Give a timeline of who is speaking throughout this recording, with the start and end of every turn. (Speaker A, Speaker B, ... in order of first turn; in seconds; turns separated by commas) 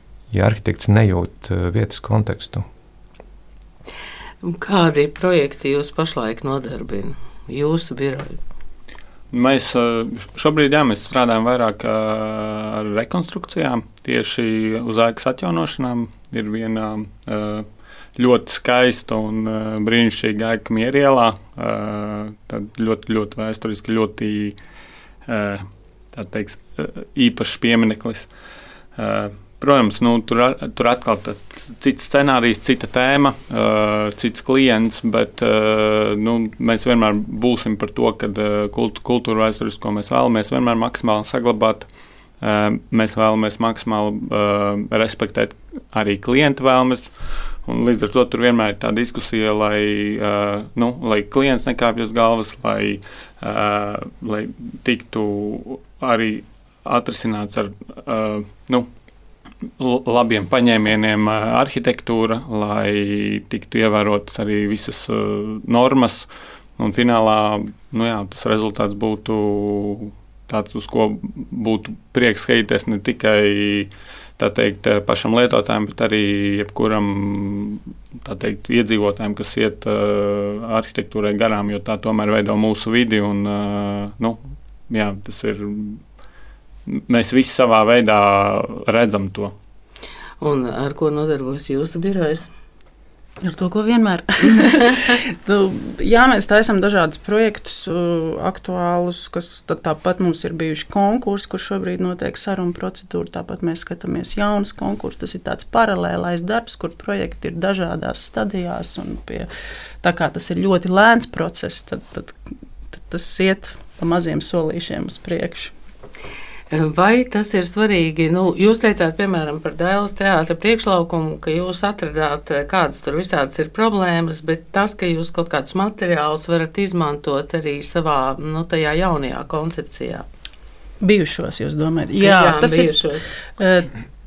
Speaker A: 0.3-2.6, Speaker B: 4.4-8.4, Speaker C: 9.3-17.6, Speaker C: 18.2-24.6, Speaker C: 25.3-28.3, Speaker C: 29.0-41.9, Speaker C: 42.4-58.9, Speaker C: 59.8-86.0, Speaker C: 86.9-89.5, Speaker B: 90.4-92.5, Speaker D: 93.4-109.5, Speaker D: 110.0-112.3, Speaker D: 112.9-115.7, Speaker B: 116.7-130.2, Speaker D: 131.0-133.0, Speaker B: 132.2-133.3, Speaker D: 133.6-133.9